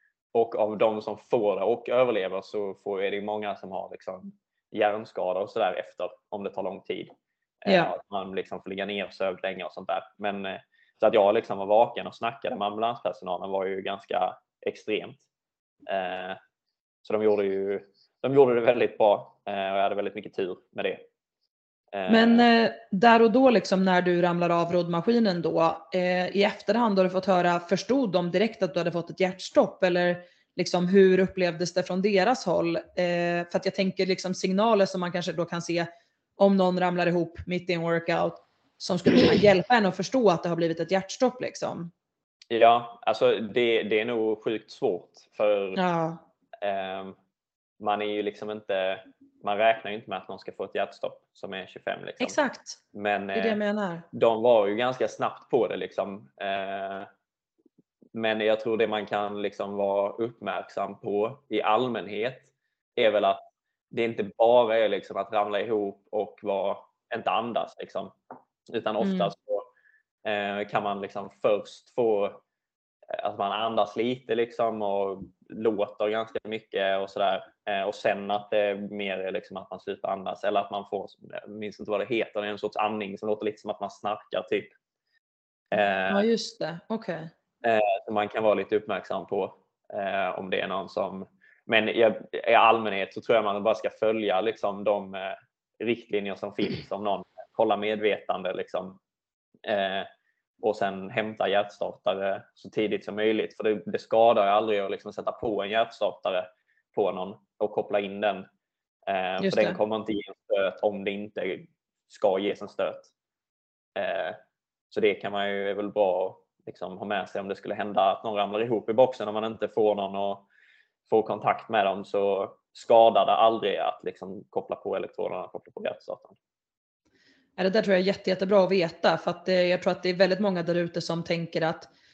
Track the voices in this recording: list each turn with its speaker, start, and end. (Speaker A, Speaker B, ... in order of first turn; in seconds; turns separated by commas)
Speaker A: 0.3-15.2, Speaker B: 7.7-7.9, Speaker A: 15.9-16.4, Speaker A: 17.0-21.0, Speaker A: 21.9-22.4, Speaker B: 22.1-35.9, Speaker B: 36.4-41.9, Speaker A: 42.5-45.8, Speaker B: 45.8-46.2, Speaker A: 46.6-47.1, Speaker A: 47.8-52.4, Speaker B: 52.2-52.8, Speaker A: 52.9-53.6, Speaker B: 53.3-54.0, Speaker A: 54.1-57.1, Speaker A: 58.1-68.1, Speaker A: 68.7-69.6, Speaker B: 69.0-69.3, Speaker A: 70.2-72.4, Speaker A: 73.1-84.7, Speaker A: 85.7-86.2, Speaker B: 85.7-87.3, Speaker A: 87.6-99.0, Speaker A: 99.7-100.1, Speaker A: 100.6-108.5, Speaker A: 109.1-113.1, Speaker B: 109.4-109.8, Speaker A: 114.0-114.4, Speaker A: 114.9-120.4, Speaker A: 121.1-126.3, Speaker B: 127.6-131.9